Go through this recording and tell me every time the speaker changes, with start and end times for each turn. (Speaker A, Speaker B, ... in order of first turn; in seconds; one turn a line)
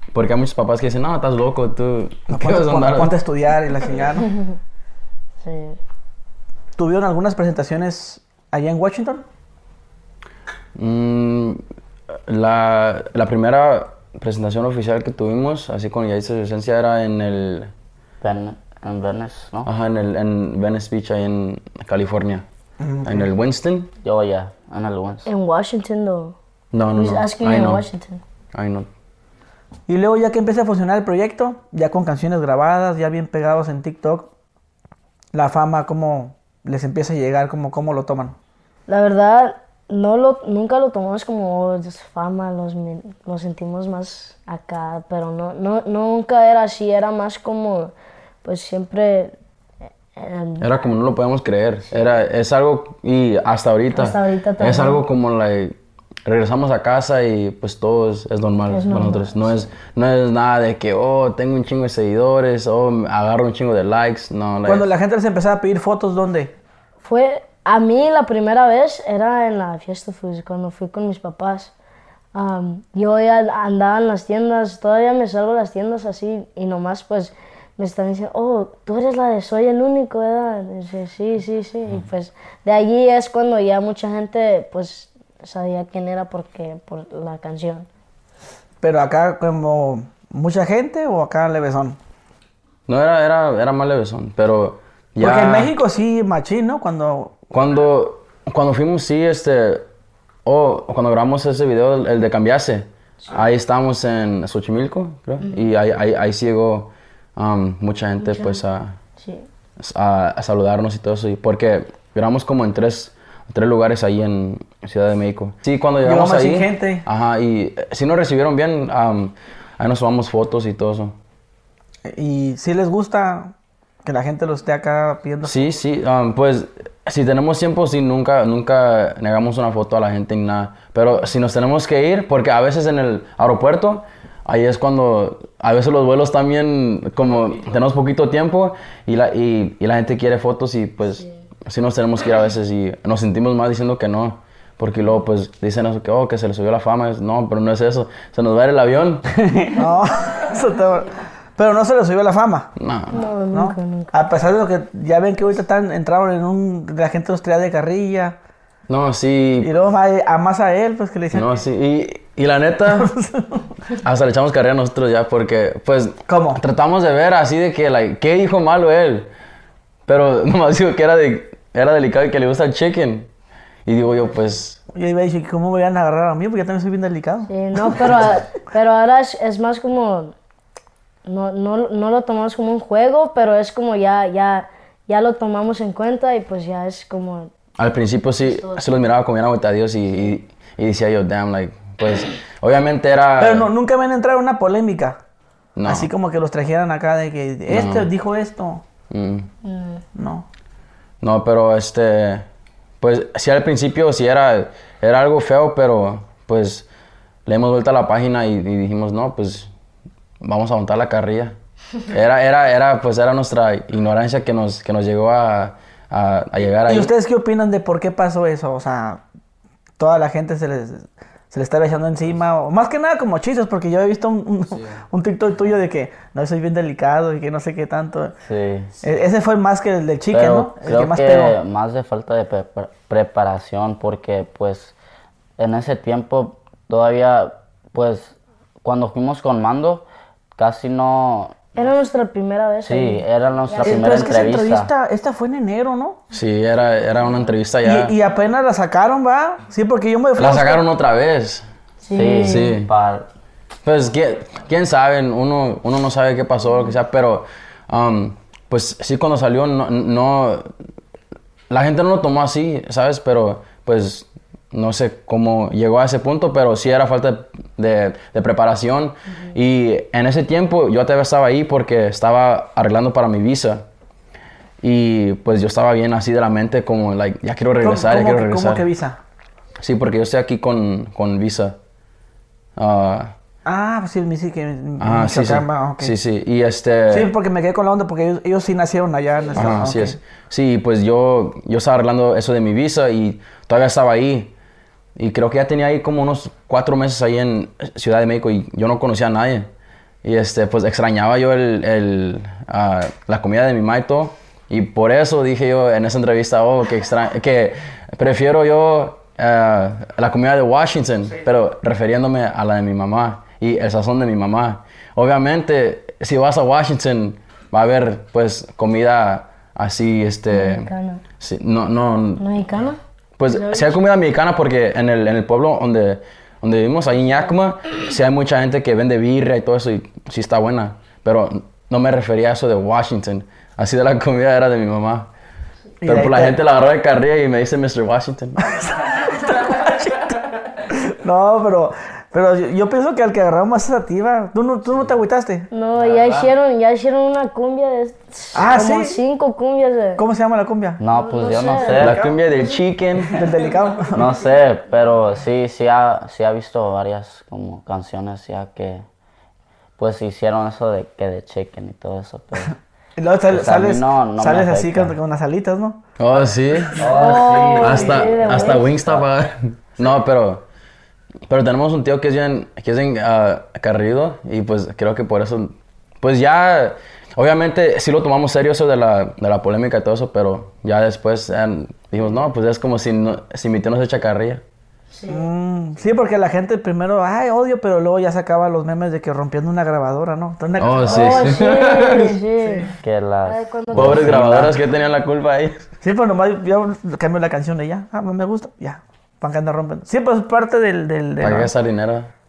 Speaker A: 0.1-3.1
Speaker B: 2.3-4.3
Speaker C: 5.4-5.8
Speaker B: 6.8-9.2
Speaker A: 10.7-11.6
Speaker A: 12.3-17.7
Speaker D: 18.2-19.7
Speaker A: 19.6-22.4
Speaker B: 22.8-23.3
Speaker A: 23.0-23.9
Speaker D: 24.0-25.3
Speaker C: 25.2-26.3
Speaker A: 26.7-27.8
Speaker C: 26.9-28.2
Speaker A: 28.5-28.9
Speaker B: 29.9-34.3
Speaker B: 35.3-38.4
Speaker C: 38.9-47.9
Speaker C: 48.4-49.3
Speaker C: 50.1-50.7
Speaker A: 50.6-64.9
Speaker C: 53.9-55.0
Speaker C: 58.7-59.6
Speaker B: 64.7-66.5
Speaker C: 67.0-71.7
Speaker C: 72.3-87.9
Speaker B: 88.8-92.0
Speaker A: 92.9-95.7
Speaker B: 95.2-97.3
Speaker A: 97.5-99.8
Speaker A: 100.4-109.0
Speaker C: 108.2-108.6
Speaker C: 109.2-109.5
Speaker A: 109.8-121.1
Speaker B: 116.0-117.0
Speaker B: 122.0-123.5
Speaker B: 124.0-125.7
Speaker A: 125.4-149.3
Speaker D: 149.4-149.7
Speaker B: 149.7-152.7
Speaker A: 152.8-153.3
Speaker C: 153.1-154.1
Speaker B: 153.5-158.3
Speaker A: 158.9-159.7
Speaker B: 159.6-161.5
Speaker A: 161.3-163.1
Speaker B: 162.9-163.6
Speaker A: 163.9-169.3
Speaker B: 166.3-166.6
Speaker A: 170.1-173.3
Speaker A: 173.8-174.8
Speaker B: 174.9-178.0
Speaker C: 177.5-180.3
Speaker C: 181.2-187.5
Speaker A: 187.8-193.7
Speaker C: 188.6-188.8
Speaker B: 193.4-195.2
Speaker A: 195.8-196.1
Speaker B: 195.8-198.8
Speaker A: 197.7-198.1
Speaker A: 199.1-199.5
Speaker C: 199.6-200.0
Speaker B: 200.1-200.4
Speaker A: 201.2-202.4
Speaker A: 203.0-206.9
Speaker A: 207.4-209.7
Speaker A: 210.4-211.5
Speaker A: 212.1-217.1
Speaker B: 216.8-219.2
Speaker B: 220.0-228.3
Speaker D: 228.4-228.9
Speaker B: 229.0-231.6
Speaker D: 230.3-234.9
Speaker D: 235.6-241.5
Speaker C: 241.7-244.4
Speaker D: 242.8-244.9
Speaker B: 243.8-246.2
Speaker A: 246.3-248.1
Speaker B: 247.8-250.8
Speaker A: 250.4-251.7
Speaker C: 252.0-252.8
Speaker D: 252.1-253.3
Speaker A: 252.3-252.9
Speaker A: 253.8-260.7
Speaker A: 261.7-273.8
Speaker A: 274.8-278.9
Speaker B: 277.8-279.2
Speaker A: 279.8-281.8
Speaker A: 282.8-283.3
Speaker B: 283.6-286.1
Speaker A: 285.0-287.3
Speaker B: 287.1-290.2
Speaker A: 289.5-294.5
Speaker A: 295.1-299.7
Speaker A: 300.2-322.4
Speaker C: 320.5-321.2
Speaker C: 322.4-324.0
Speaker A: 323.4-335.3
Speaker B: 336.0-336.6
Speaker A: 336.0-339.0
Speaker B: 339.5-345.7
Speaker C: 345.7-350.2
Speaker B: 348.5-349.2
Speaker B: 350.2-351.0
Speaker D: 351.0-352.2
Speaker C: 351.1-352.2
Speaker A: 351.9-353.4
Speaker B: 353.3-354.3
Speaker D: 354.1-359.0
Speaker D: 360.0-362.7
Speaker B: 363.2-366.0
Speaker D: 363.5-365.1
Speaker A: 366.2-370.6
Speaker D: 367.0-369.2
Speaker C: 367.0-368.9
Speaker A: 371.5-384.6
Speaker C: 385.1-385.4
Speaker B: 385.3-391.7
Speaker A: 390.8-392.4
Speaker C: 391.1-392.9
Speaker D: 393.0-394.7
Speaker C: 393.4-394.4
Speaker A: 393.9-395.9
Speaker B: 396.0-401.7
Speaker A: 401.4-402.3